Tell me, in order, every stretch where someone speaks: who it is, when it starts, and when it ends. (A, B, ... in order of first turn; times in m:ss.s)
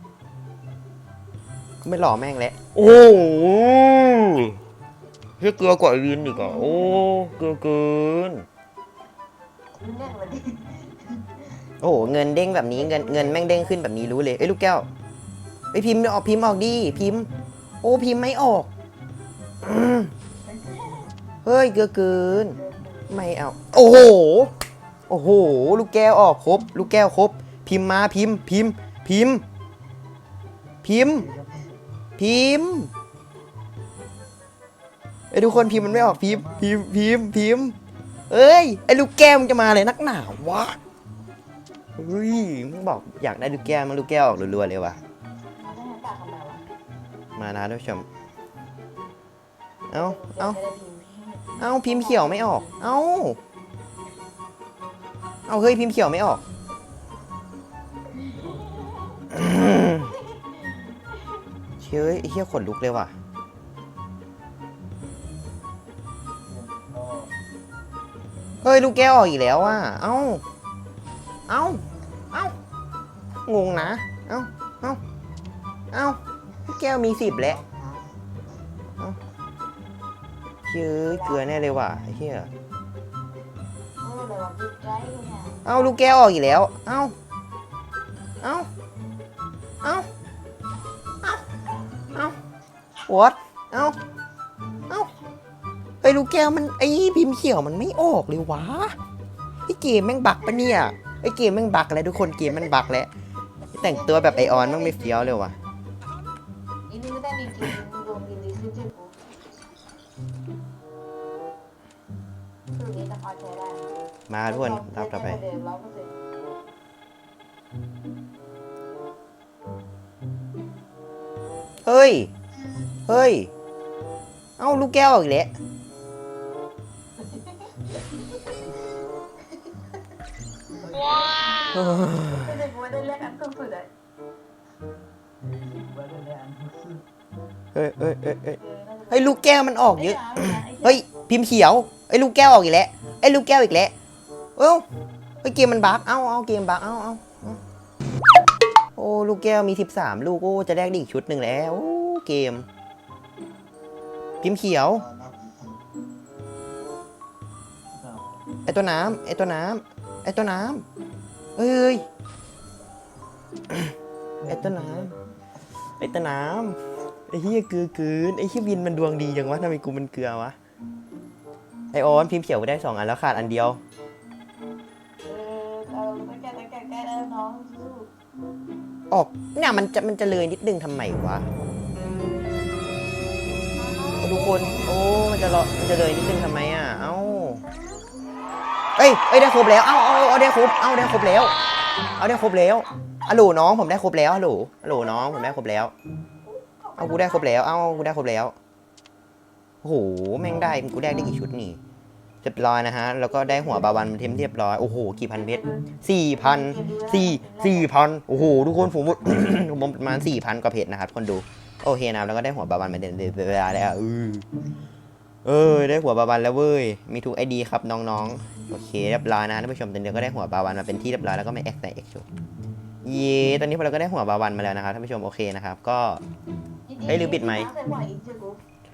0:01.8-0:04.6 A
0:05.4-0:08.4 A
0:06.2-0:07.0 B
0:09.8-0:11.3 B
0:11.8-0:14.9 A
0:12.7-0:13.8 B
0:15.7-0:17.3 A
0:17.8-0:18.7 A
0:19.6-0:20.1 A
0:20.6-0:21.0 C
0:21.4-0:24.5 A
0:22.6-0:23.2 B
0:25.1-0:29.4 A
0:30.8-0:31.3 A
0:31.3-0:31.6 C
0:32.2-0:32.9 A
0:35.3-0:37.8 A
0:35.8-0:36.6 C
0:38.3-0:40.8 A
0:42.0-0:45.0 A
0:45.6-0:46.6 B
0:47.4-0:48.1 A
0:49.9-0:50.6 A
0:49.9-0:52.8 B
0:51.6-0:53.4 A
0:55.5-0:56.4 A
0:58.1-1:01.4 B
0:59.3-1:00.1 A
1:01.8-1:03.1 A
1:06.5-1:07.3 C
1:08.6-1:10.4 A
1:11.5-1:12.5 A
1:13.5-1:15.0 A
1:15.9-1:17.6 A
1:17.5-1:18.0 C
1:20.6-1:22.5 A
1:21.1-1:21.5 B
1:24.0-1:26.0 B
1:25.6-1:27.1 A
1:28.4-1:28.7 A
1:33.1-1:34.0 A
1:36.0-1:39.0 A
1:39.7-1:43.1 A
1:43.8-1:45.4 B
1:43.8-1:45.6 A
1:46.9-1:49.1 B
1:52.7-1:53.9 B
1:54.3-1:55.4 A
1:54.5-1:56.2 B
2:01.8-2:02.3 A
2:03.1-2:03.5 A
2:04.6-2:05.5 A
2:07.2-2:07.8 B
2:10.9-2:13.9 B
2:10.9-2:11.4 C
2:11.7-2:12.5 A
2:15.4-2:17.0 C
2:17.7-2:18.6 A
2:18.6-2:21.0 B
2:19.1-2:23.9 A
2:24.6-2:24.8 A
2:25.4-2:27.6 A
2:29.0-2:32.6 A
2:34.4-2:35.0 A
2:35.0-2:35.7 C
2:38.6-2:40.8 A
2:41.6-2:42.0 A
2:43.7-2:43.9 A
2:44.4-2:45.1 C
2:44.5-2:45.1 A
2:46.0-2:50.5 A
2:51.9-2:53.8 A
2:55.2-2:58.1 B
2:59.1-3:01.4 A
3:03.7-3:05.3 B
3:04.2-3:07.6 A
3:09.0-3:11.5 A
3:12.2-3:15.9 A
3:15.0-3:15.6 B
3:16.4-3:18.1 B
3:17.0-3:18.5 A
3:19.8-3:21.8 A
3:22.4-3:34.4 A
3:25.4-3:27.9 B
3:35.4-3:42.2 A
3:43.0-3:46.2 A
3:46.9-3:48.6 B
3:47.0-3:47.7 A